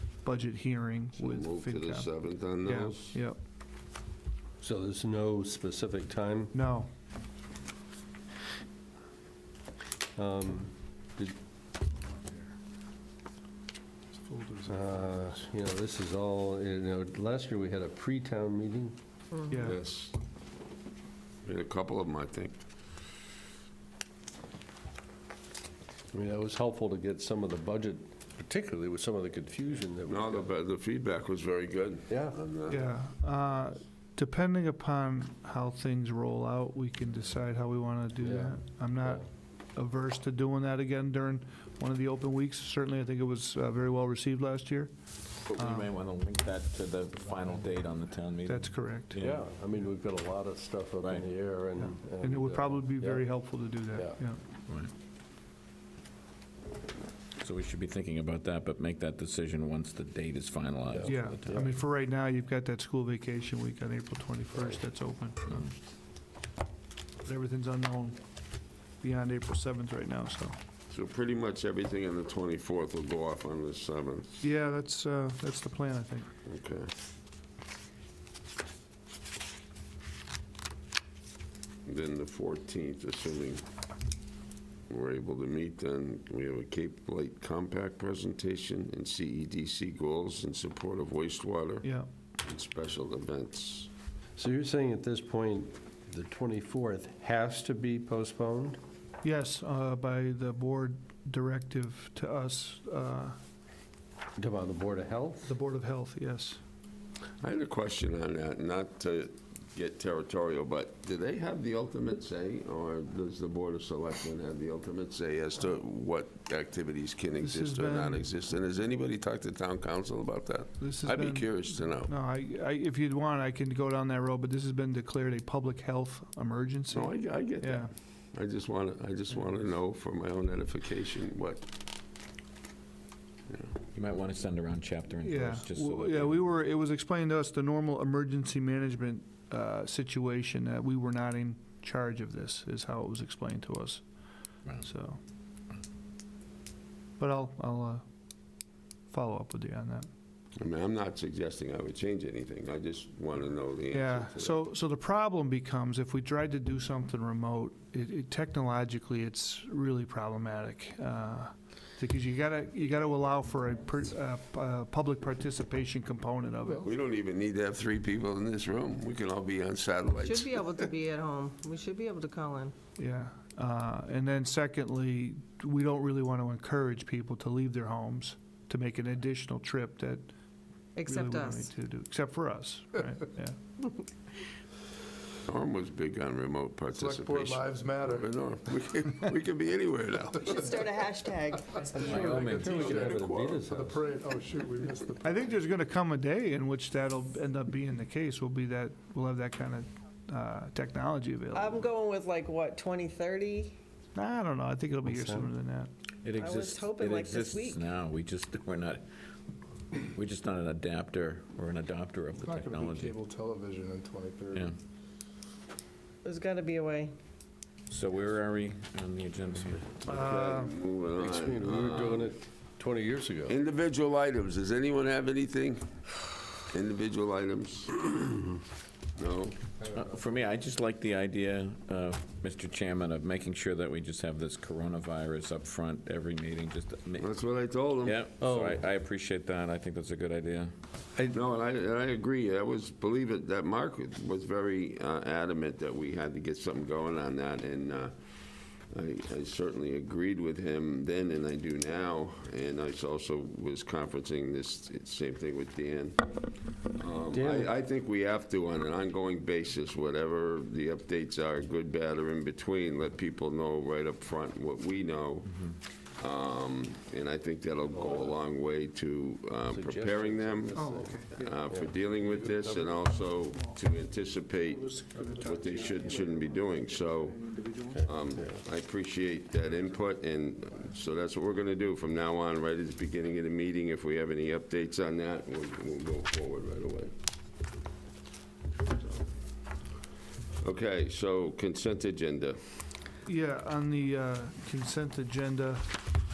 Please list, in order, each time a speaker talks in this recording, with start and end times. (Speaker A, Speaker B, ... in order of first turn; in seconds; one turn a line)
Speaker A: 0.2-2.1
Speaker B: 1.2-3.2
Speaker A: 2.6-3.4
Speaker C: 4.6-6.5
Speaker A: 6.5-6.9
Speaker C: 10.2-11.3
Speaker A: 14.3-14.7
Speaker C: 14.7-19.0
Speaker D: 19.3-19.6
Speaker A: 19.5-19.8
Speaker B: 19.6-20.2
Speaker B: 21.4-22.6
Speaker C: 26.1-30.5
Speaker B: 30.1-32.9
Speaker C: 32.1-32.4
Speaker A: 32.7-44.9
Speaker C: 38.2-39.2
Speaker E: 45.5-49.4
Speaker A: 45.5-45.9
Speaker A: 48.5-49.2
Speaker C: 49.2-53.2
Speaker A: 51.8-54.4
Speaker E: 57.4-61.8
Speaker C: 60.9-61.7
Speaker A: 61.0-65.7
Speaker A: 67.2-68.2
Speaker A: 69.0-70.6
Speaker B: 70.9-74.4
Speaker A: 74.4-76.3
Speaker B: 76.4-76.9
Speaker B: 81.8-83.6
Speaker B: 84.9-91.8
Speaker B: 92.4-93.9
Speaker C: 94.4-98.8
Speaker A: 99.2-103.4
Speaker C: 104.3-105.5
Speaker A: 105.5-106.6
Speaker B: 107.4-122.1
Speaker A: 117.4-118.2
Speaker A: 120.8-127.9
Speaker B: 126.9-131.6
Speaker E: 133.9-136.5
Speaker A: 135.2-144.0
Speaker A: 144.8-145.2
Speaker A: 147.2-148.0
Speaker A: 149.1-150.1
Speaker B: 150.6-154.6
Speaker A: 153.9-166.9
Speaker B: 166.8-170.8
Speaker D: 170.2-172.7
Speaker A: 173.0-180.3
Speaker D: 180.9-181.7
Speaker A: 181.0-183.6
Speaker B: 185.4-190.6
Speaker F: 186.9-188.3
Speaker D: 190.4-192.3
Speaker C: 191.9-194.1
Speaker E: 191.9-193.2
Speaker F: 192.3-195.3
Speaker A: 195.2-201.9
Speaker D: 201.5-203.8
Speaker A: 204.1-205.9
Speaker C: 205.1-205.5
Speaker E: 206.2-209.0
Speaker D: 206.3-207.8
Speaker E: 210.0-213.2
Speaker F: 212.4-214.7
Speaker D: 216.2-217.1
Speaker E: 217.9-220.0
Speaker B: 220.1-222.3
Speaker A: 220.1-220.8
Speaker C: 221.2-223.5
Speaker B: 223.5-226.0
Speaker B: 226.7-228.5
Speaker B: 229.2-229.7
Speaker E: 229.8-237.3
Speaker B: 237.2-238.2
Speaker E: 238.0-240.7
Speaker C: 238.4-238.8
Speaker B: 241.3-248.1
Speaker B: 248.9-287.1
Speaker C: 257.3-257.7
Speaker C: 267.9-268.4
Speaker C: 269.7-272.9
Speaker A: 270.8-271.3
Speaker F: 275.2-275.5
Speaker C: 277.9-278.6
Speaker B: 288.9-289.2
Speaker B: 290.6-292.9
Speaker A: 293.2-296.0